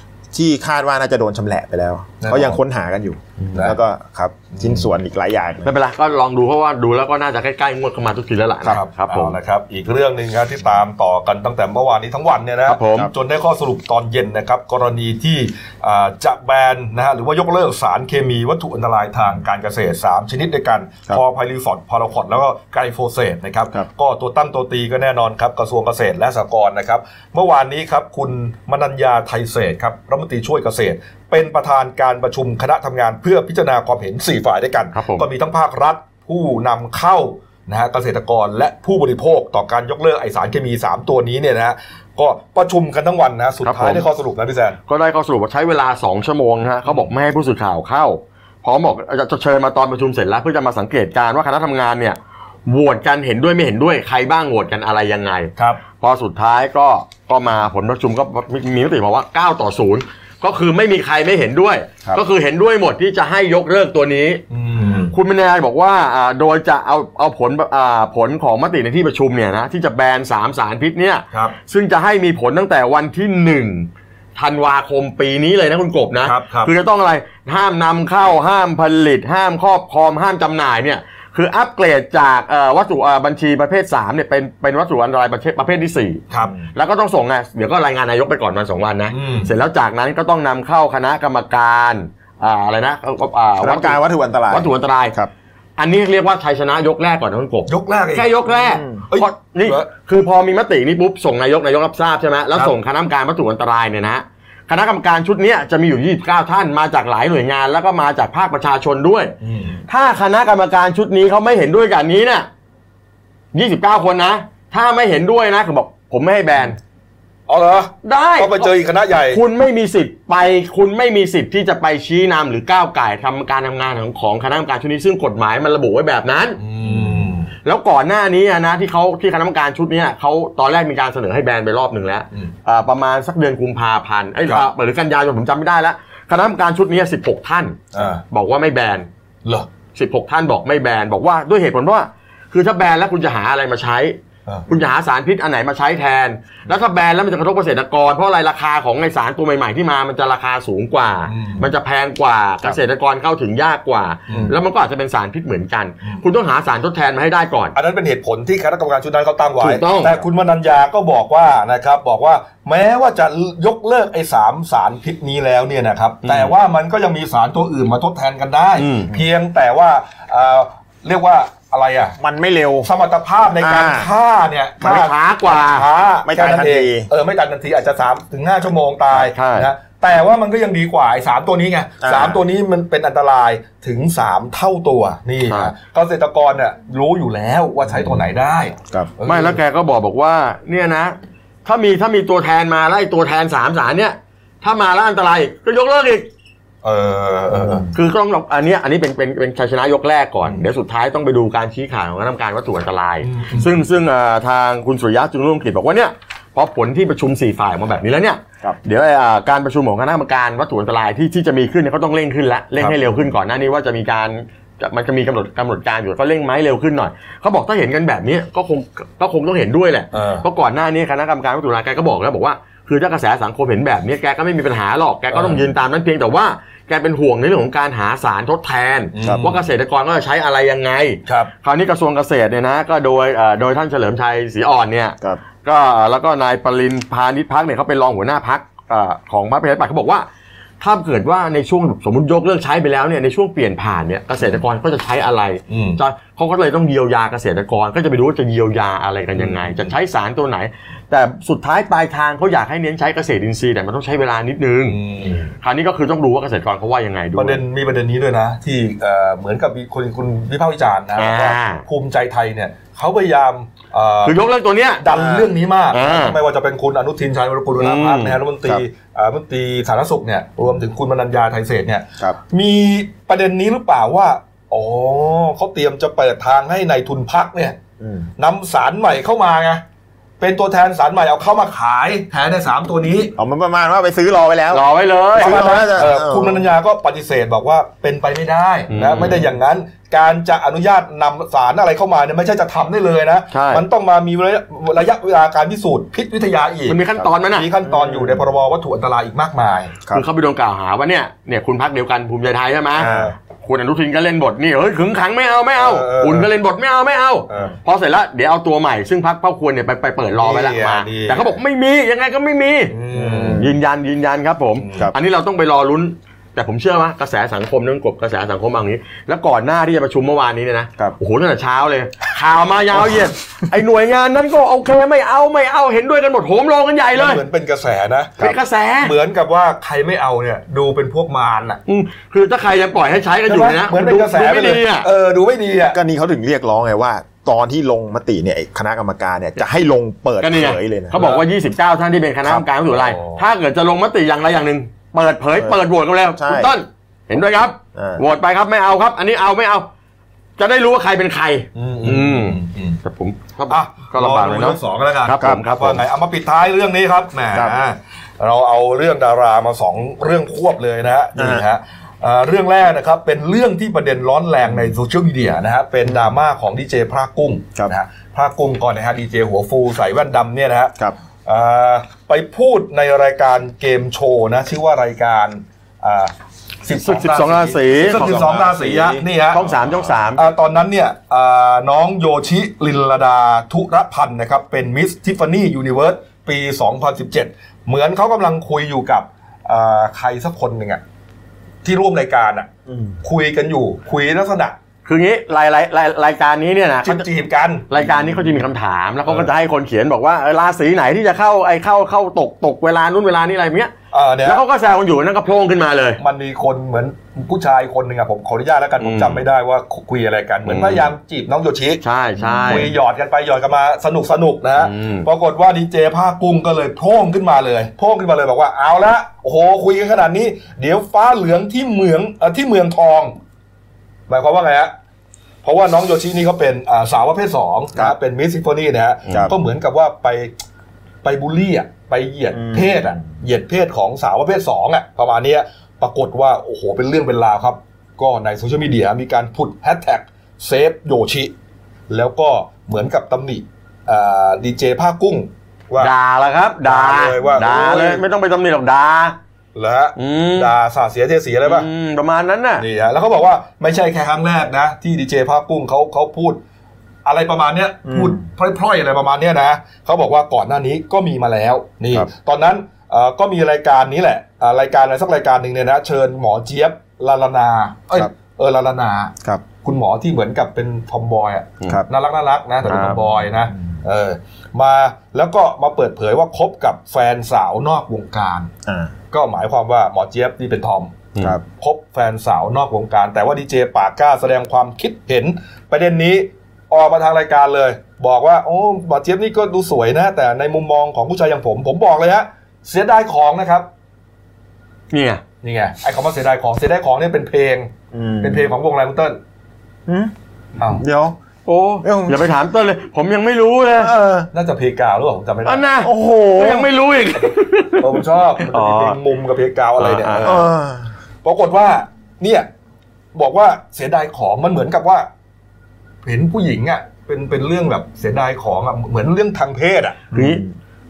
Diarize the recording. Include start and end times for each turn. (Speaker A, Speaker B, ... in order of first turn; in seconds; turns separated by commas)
Speaker A: 0.3-5.7, Speaker B: 2.2-2.6, Speaker B: 4.5-4.9, Speaker C: 5.6-9.4, Speaker B: 8.7-44.8, Speaker C: 12.7-13.1, Speaker C: 34.9-35.3, Speaker C: 43.6-44.0, Speaker C: 44.9-64.4, Speaker B: 64.5-65.1, Speaker C: 65.1-95.2, Speaker B: 76.2-76.7, Speaker B: 89.1-89.5, Speaker A: 93.6-95.3, Speaker C: 95.8-109.3, Speaker B: 97.7-99.9, Speaker A: 98.6-99.0, Speaker B: 109.4-109.8, Speaker C: 109.9-112.5, Speaker C: 113.5-116.8, Speaker B: 117.5-119.4, Speaker C: 118.0-118.7, Speaker C: 119.3-127.1, Speaker B: 126.6-127.5, Speaker C: 127.6-139.1, Speaker B: 137.9-138.2, Speaker C: 139.9-157.8, Speaker B: 151.3-151.7, Speaker B: 154.3-154.6, Speaker B: 157.7-172.2, Speaker C: 159.6-160.2, Speaker C: 166.2-166.5, Speaker C: 168.8-169.1, Speaker A: 172.2-172.9, Speaker B: 172.8-189.6, Speaker A: 173.6-174.1, Speaker C: 174.8-175.9, Speaker A: 176.2-177.1, Speaker C: 179.1-179.7, Speaker A: 182.0-182.4, Speaker C: 185.5-185.7, Speaker C: 189.3-196.3, Speaker B: 196.8-197.9, Speaker A: 197.6-197.9, Speaker C: 197.9-240.3, Speaker B: 203.2-203.8, Speaker B: 220.1-220.4, Speaker B: 225.3-225.7, Speaker B: 229.1-229.6, Speaker A: 229.2-229.5, Speaker B: 231.3-231.5, Speaker C: 240.8-255.0, Speaker B: 245.7-246.0, Speaker B: 249.3-249.9, Speaker B: 254.9-255.5, Speaker C: 255.6-257.6, Speaker B: 257.4-264.4, Speaker C: 261.2-261.9, Speaker C: 264.2-265.1, Speaker B: 265.0-277.8, Speaker A: 265.1-265.5, Speaker C: 265.9-266.4, Speaker C: 267.8-268.4, Speaker A: 278.0-278.3, Speaker B: 278.4-279.8, Speaker B: 280.4-283.4, Speaker A: 283.4-286.7, Speaker C: 284.7-285.9, Speaker B: 285.4-299.9, Speaker C: 288.9-289.5, Speaker C: 293.5-293.9, Speaker C: 296.9-297.7, Speaker A: 297.9-298.5, Speaker C: 300.1-313.0, Speaker B: 303.0-303.3, Speaker A: 303.0-303.4, Speaker B: 305.8-306.5, Speaker B: 307.5-307.7, Speaker B: 310.4-311.6, Speaker B: 312.9-313.7, Speaker A: 313.1-313.7, Speaker C: 313.5-327.4, Speaker B: 314.8-315.1, Speaker B: 327.1-331.8, Speaker C: 328.4-329.1, Speaker C: 331.9-335.1, Speaker B: 333.5-336.0, Speaker A: 335.9-341.1, Speaker C: 340.4-349.9, Speaker B: 341.1-341.5, Speaker B: 342.9-343.4, Speaker A: 346.4-346.7, Speaker A: 347.9-348.2, Speaker C: 350.6-356.0, Speaker B: 351.8-353.0, Speaker B: 353.7-376.3, Speaker A: 361.4-361.6, Speaker B: 376.8-379.7, Speaker C: 377.0-378.5, Speaker A: 378.0-379.2, Speaker C: 379.5-380.4, Speaker B: 380.4-391.0, Speaker B: 391.8-392.7, Speaker A: 392.9-393.2, Speaker B: 393.2-394.8, Speaker C: 395.1-397.2, Speaker B: 397.0-398.1, Speaker C: 397.9-403.9, Speaker B: 404.1-404.6, Speaker C: 404.4-406.2, Speaker B: 406.2-412.0, Speaker C: 409.0-409.4, Speaker C: 410.6-411.1, Speaker C: 412.0-412.9, Speaker A: 412.4-412.9, Speaker B: 412.6-423.4, Speaker C: 414.8-415.3, Speaker B: 424.3-424.9, Speaker B: 425.6-430.5, Speaker B: 431.2-441.5, Speaker A: 432.5-433.2, Speaker B: 442.1-446.1, Speaker C: 446.0-449.4, Speaker B: 446.8-448.2, Speaker B: 449.8-451.9, Speaker C: 450.2-450.7, Speaker C: 451.6-452.9, Speaker B: 452.8-456.6, Speaker B: 457.2-478.7, Speaker A: 458.1-458.4, Speaker A: 472.9-473.3, Speaker A: 478.9-479.1, Speaker B: 479.3-493.9, Speaker C: 495.1-495.4, Speaker B: 495.6-499.4, Speaker A: 498.1-498.7, Speaker A: 500.1-500.3, Speaker B: 500.8-501.0, Speaker A: 500.9-501.4, Speaker C: 501.7-504.1, Speaker A: 502.0-502.4, Speaker A: 504.0-504.5, Speaker B: 504.5-505.9, Speaker C: 505.6-509.2, Speaker A: 506.0-506.9, Speaker B: 508.0-510.7, Speaker C: 510.0-510.6, Speaker A: 510.4-511.1, Speaker B: 511.4-512.7, Speaker B: 513.4-515.3, Speaker B: 516.2-520.3, Speaker C: 520.3-520.6, Speaker A: 520.3-520.7